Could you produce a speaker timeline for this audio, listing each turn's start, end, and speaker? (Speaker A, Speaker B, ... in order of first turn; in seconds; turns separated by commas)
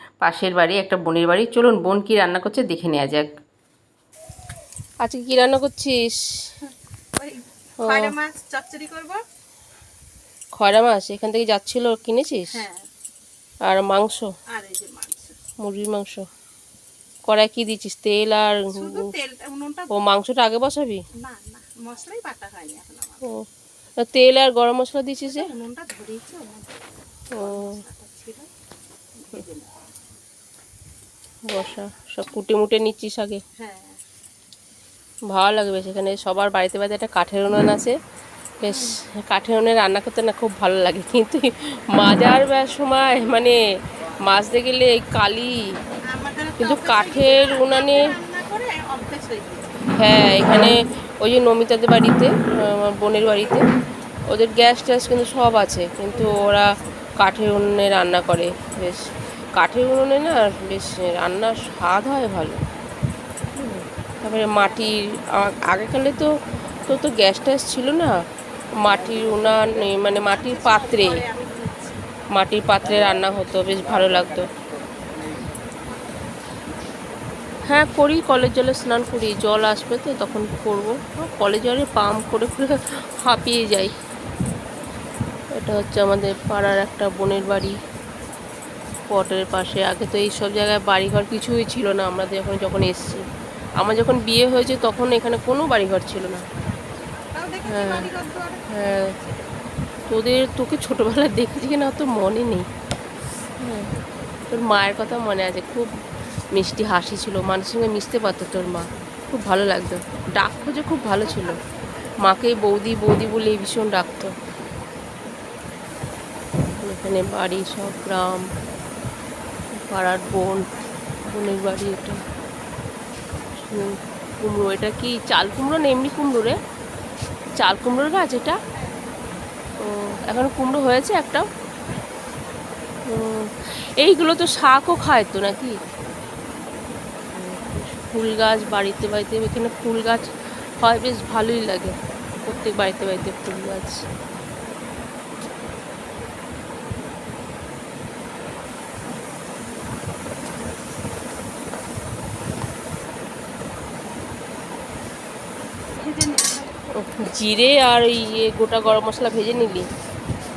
Speaker A: 0.2-3.3, Speaker A: 5.0-6.1, Speaker B: 7.2-9.2, Speaker A: 10.6-12.5, Speaker B: 12.5-12.8, Speaker A: 13.7-14.3, Speaker B: 14.5-15.3, Speaker A: 15.6-16.2, Speaker A: 17.3-19.0, Speaker B: 18.7-19.9, Speaker A: 19.9-21.0, Speaker B: 21.2-23.2, Speaker A: 24.0-25.4, Speaker B: 25.2-26.8, Speaker B: 27.3-28.5, Speaker A: 27.3-27.7, Speaker B: 29.1-29.7, Speaker A: 31.5-33.4, Speaker B: 33.6-34.0, Speaker A: 35.3-38.0, Speaker A: 38.6-43.6, Speaker B: 38.6-38.9, Speaker A: 44.3-45.5, Speaker B: 46.1-49.9, Speaker A: 46.6-48.1, Speaker A: 49.9-53.6, Speaker A: 54.3-56.6, Speaker B: 56.1-56.6, Speaker A: 57.2-59.0, Speaker A: 59.6-62.6, Speaker A: 63.6-66.3, Speaker A: 66.9-68.1, Speaker A: 68.8-71.2, Speaker B: 70.2-72.1, Speaker A: 72.3-74.5, Speaker B: 76.0-76.2, Speaker A: 77.7-83.9, Speaker A: 85.5-87.8, Speaker A: 89.1-93.2, Speaker A: 93.8-96.4, Speaker B: 97.3-99.4, Speaker A: 97.7-98.1, Speaker A: 98.7-99.1, Speaker A: 100.1-102.7, Speaker A: 103.6-103.9, Speaker A: 104.5-105.9, Speaker A: 106.5-111.6, Speaker A: 112.2-114.3, Speaker A: 116.8-118.5, Speaker A: 119.7-120.7, Speaker A: 121.2-122.2, Speaker A: 123.6-126.6, Speaker A: 127.6-128.6, Speaker B: 128.8-129.1, Speaker A: 129.8-131.5, Speaker A: 133.1-135.8, Speaker A: 137.3-140.3, Speaker A: 140.8-144.0, Speaker B: 155.9-156.8, Speaker A: 157.0-159.9